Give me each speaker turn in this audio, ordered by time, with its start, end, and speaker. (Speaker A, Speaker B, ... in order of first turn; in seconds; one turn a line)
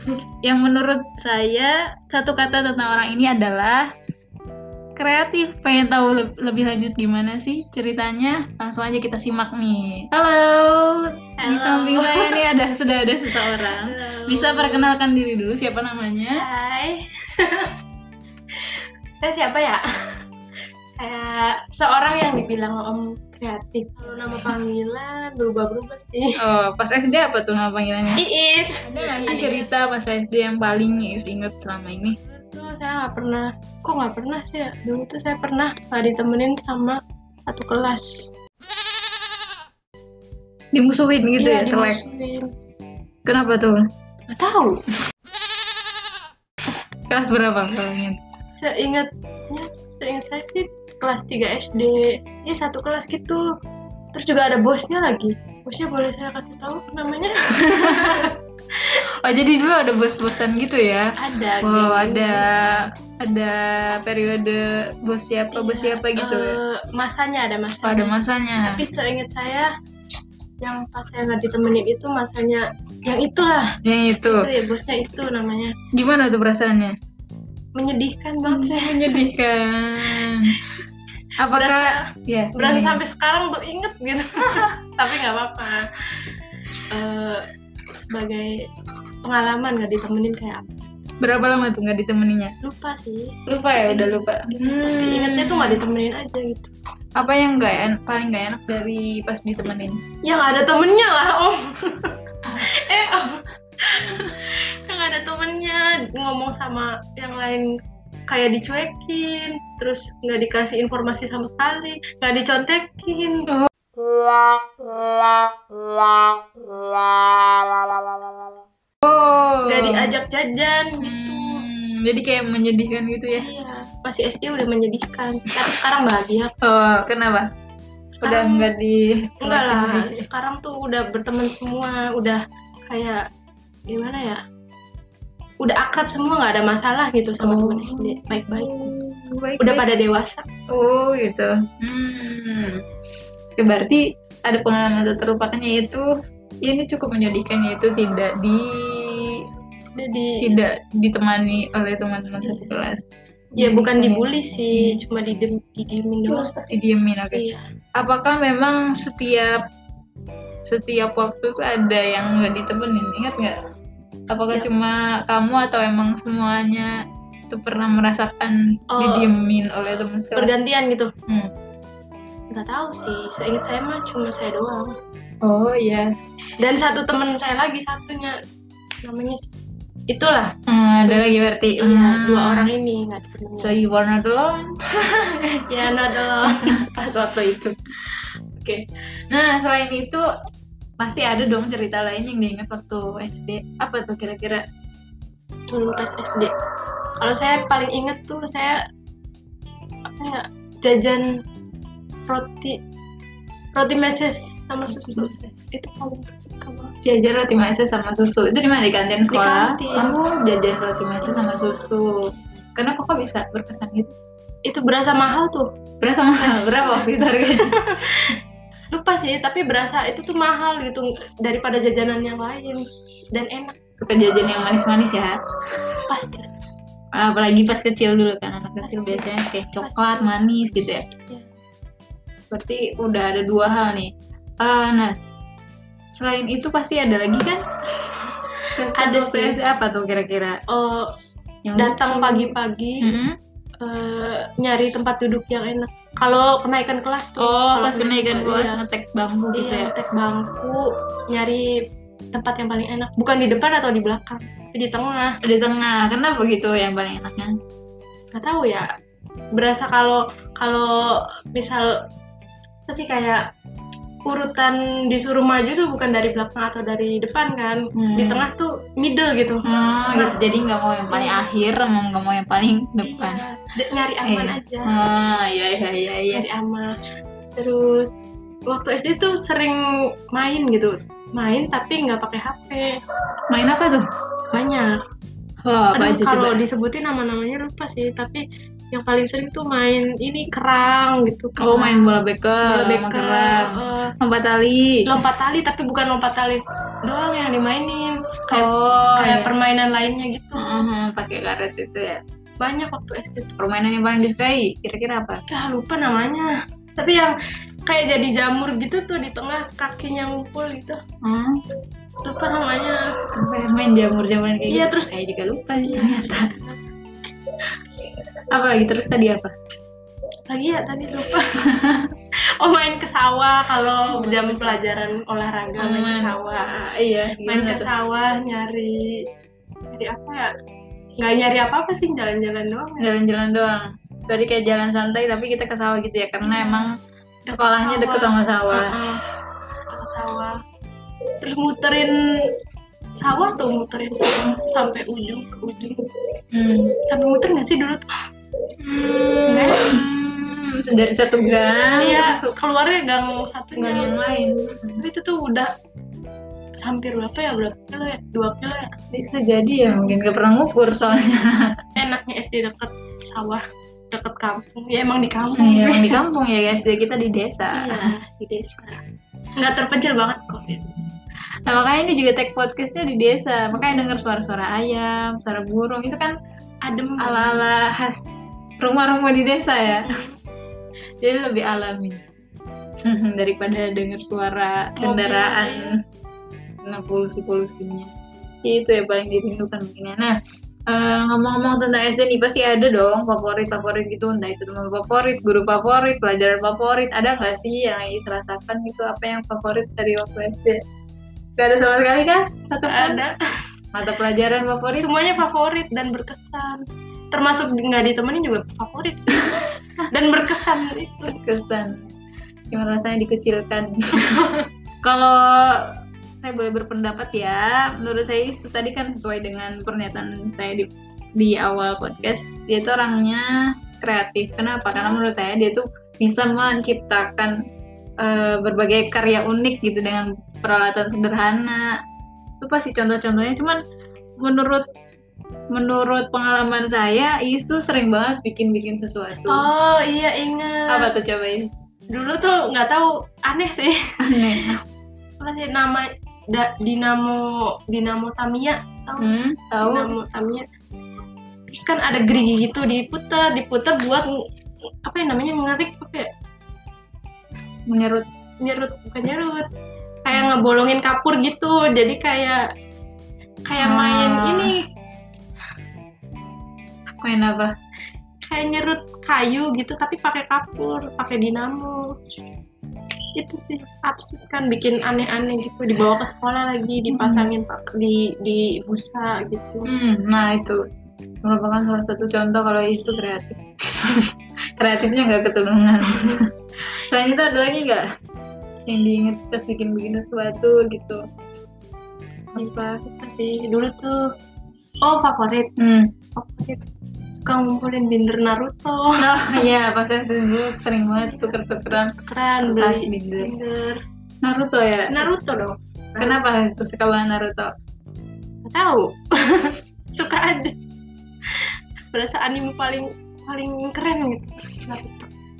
Speaker A: 0.4-3.9
Speaker A: 5.0-16.4
Speaker B: 11.4-12.4
Speaker B: 13.5-14.9
Speaker B: 16.4-17.7
Speaker B: 19.2-19.8
Speaker B: 21.0-26.4
Speaker A: 26.4-28.2
Speaker B: 28.2-29.7
Speaker A: 28.8-32.2
Speaker B: 32.2-38.3
Speaker A: 40.7-42.0
Speaker B: 41.4-42.5
Speaker A: 43.2-43.8
Speaker B: 44.3-44.8
Speaker A: 47.1-48.2
Speaker B: 48.5-53.5
Speaker B: 54.1-58.3
Speaker A: 57.6-58.3
Speaker A: 59.2-66.6
Speaker B: 61.2-62.9
Speaker B: 65.5-69.7
Speaker A: 67.8-68.8
Speaker B: 70.6-73.7
Speaker A: 73.8-74.5
Speaker B: 74.2-75.7
Speaker A: 75.9-76.9
Speaker B: 77.8-79.3
Speaker A: 78.5-80.6
Speaker A: 81.4-83.0
Speaker B: 81.5-82.0
Speaker B: 82.5-85.9
Speaker B: 86.9-87.4
Speaker B: 88.1-88.5
Speaker B: 89.2-90.6
Speaker A: 91.2-92.5
Speaker B: 92.6-96.7
Speaker A: 93.5-95.8
Speaker A: 97.2-100.0
Speaker B: 100.2-107.7
Speaker B: 108.3-113.5
Speaker A: 119.0-120.1
Speaker B: 119.6-121.7
Speaker A: 121.0-123.5
Speaker B: 123.3-126.5
Speaker A: 126.6-127.5
Speaker B: 128.2-128.7
Speaker A: 128.2-130.2
Speaker B: 129.4-133.2
Speaker B: 133.9-134.4
Speaker B: 135.6-138.9
Speaker A: 137.4-139.8
Speaker B: 139.6-140.4
Speaker A: 140.7-142.8
Speaker A: 143.6-146.0
Speaker A: 146.6-149.4
Speaker B: 149.9-150.5
Speaker A: 150.4-154.2
Speaker B: 153.6-156.6
Speaker A: 156.3-157.4
Speaker B: 157.3-157.6
Speaker A: 158.0-159.6
Speaker A: 160.7-163.6
Speaker A: 164.3-166.9
Speaker A: 167.5-170.6
Speaker B: 168.9-169.3
Speaker B: 170.3-171.1
Speaker B: 172.5-174.9
Speaker A: 175.4-176.1
Speaker B: 176.6-178.3
Speaker B: 179.0-179.6
Speaker B: 180.1-183.8
Speaker A: 180.7-182.7
Speaker A: 183.5-185.7
Speaker B: 185.7-186.8
Speaker A: 186.5-190.2
Speaker A: 191.0-194.6
Speaker B: 195.7-196.5
Speaker B: 197.2-198.8
Speaker B: 200.1-201.3
Speaker B: 202.3-202.8
Speaker B: 203.7-206.9
Speaker A: 204.9-205.8
Speaker A: 207.0-214.1
Speaker B: 209.3-210.2
Speaker B: 214.7-215.7
Speaker A: 216.0-218.2
Speaker B: 216.4-218.2
Speaker B: 218.9-223.8
Speaker A: 224.0-225.4
Speaker B: 226.1-226.5
Speaker A: 227.1-231.1
Speaker B: 228.8-230.4
Speaker A: 232.5-235.1
Speaker A: 236.1-238.2
Speaker A: 238.7-240.6
Speaker B: 238.9-239.6
Speaker B: 240.7-241.1
Speaker A: 241.6-243.3
Speaker B: 241.8-243.2
Speaker B: 243.8-248.8
Speaker A: 247.4-249.9
Speaker B: 249.5-251.7
Speaker B: 252.3-255.4
Speaker A: 255.4-257.5
Speaker B: 258.3-258.9
Speaker B: 259.5-261.9
Speaker B: 262.9-263.4
Speaker B: 264.2-270.4
Speaker A: 267.9-268.4
Speaker A: 269.6-273.4
Speaker B: 271.1-271.5
Speaker B: 273.0-274.9
Speaker A: 274.2-276.4
Speaker B: 276.3-276.9
Speaker B: 277.6-278.1
Speaker B: 278.7-279.8
Speaker B: 280.3-282.9
Speaker A: 283.5-284.0
Speaker B: 284.5-285.0
Speaker A: 285.6-286.6
Speaker B: 285.9-292.1
Speaker A: 291.6-294.9
Speaker B: 292.6-294.1
Speaker B: 295.1-300.9
Speaker A: 298.5-299.5
Speaker A: 300.6-302.2
Speaker B: 302.6-303.6
Speaker A: 303.6-305.4
Speaker B: 305.5-307.3
Speaker B: 307.9-311.0
Speaker A: 311.2-311.6
Speaker B: 312.2-313.1
Speaker A: 313.4-316.6
Speaker B: 314.7-315.1
Speaker B: 315.8-316.8
Speaker A: 318.5-319.5
Speaker B: 320.5-321.5
Speaker A: 321.7-322.0
Speaker B: 322.6-329.2
Speaker A: 324.1-324.8
Speaker A: 325.8-326.4
Speaker A: 326.9-327.9
Speaker B: 329.9-330.5
Speaker B: 331.2-333.1
Speaker A: 333.0-336.9
Speaker B: 336.4-336.9
Speaker A: 337.5-338.9
Speaker B: 337.5-339.2
Speaker B: 339.9-340.5
Speaker B: 341.4-342.2
Speaker B: 343.2-346.1
Speaker A: 346.5-346.9
Speaker B: 347.1-348.1
Speaker A: 348.8-352.5
Speaker B: 349.5-350.1
Speaker B: 352.0-354.1
Speaker A: 353.8-355.0
Speaker B: 355.0-355.7
Speaker B: 356.8-359.0
Speaker A: 359.1-361.7
Speaker B: 359.9-360.2
Speaker B: 362.0-366.2
Speaker A: 365.6-367.9
Speaker B: 367.7-369.0
Speaker B: 369.6-370.8
Speaker A: 371.6-376.3
Speaker B: 376.8-377.6
Speaker A: 377.2-378.3
Speaker A: 378.8-380.1
Speaker B: 380.0-380.4
Speaker A: 381.2-382.2
Speaker A: 383.0-385.9
Speaker B: 385.0-385.9
Speaker A: 386.8-388.1
Speaker A: 388.6-390.3
Speaker A: 390.9-400.8
Speaker A: 401.6-403.2
Speaker B: 402.8-403.4
Speaker A: 403.9-405.1
Speaker B: 404.9-411.4
Speaker A: 411.3-412.1
Speaker A: 412.7-414.4
Speaker A: 415.0-415.9
Speaker A: 416.4-423.4
Speaker A: 424.0-427.5
Speaker A: 428.2-431.9
Speaker A: 432.6-433.8
Speaker A: 434.4-434.9
Speaker A: 435.7-439.7
Speaker B: 439.5-441.1
Speaker A: 440.9-441.7
Speaker B: 442.1-444.7
Speaker A: 444.2-444.8
Speaker B: 445.4-450.6
Speaker A: 449.2-450.1
Speaker B: 451.7-454.4
Speaker B: 455.0-456.3
Speaker A: 457.9-458.2
Speaker B: 458.6-459.6
Speaker B: 460.2-462.6
Speaker B: 463.7-464.8
Speaker A: 463.8-464.7
Speaker A: 467.2-467.7
Speaker B: 468.4-472.0
Speaker B: 473.4-479.9
Speaker A: 477.1-477.5
Speaker A: 479.9-480.8
Speaker A: 481.4-486.5
Speaker A: 487.0-488.1
Speaker A: 488.9-491.2
Speaker A: 492.5-493.0
Speaker B: 492.5-494.2
Speaker B: 495.0-495.7
Speaker A: 495.8-496.1
Speaker B: 496.4-496.8
Speaker B: 497.4-499.6
Speaker A: 499.2-503.5
Speaker B: 501.1-504.0
Speaker A: 504.4-505.3
Speaker B: 505.1-506.4
Speaker A: 506.2-507.7
Speaker B: 508.6-510.7
Speaker B: 512.1-515.3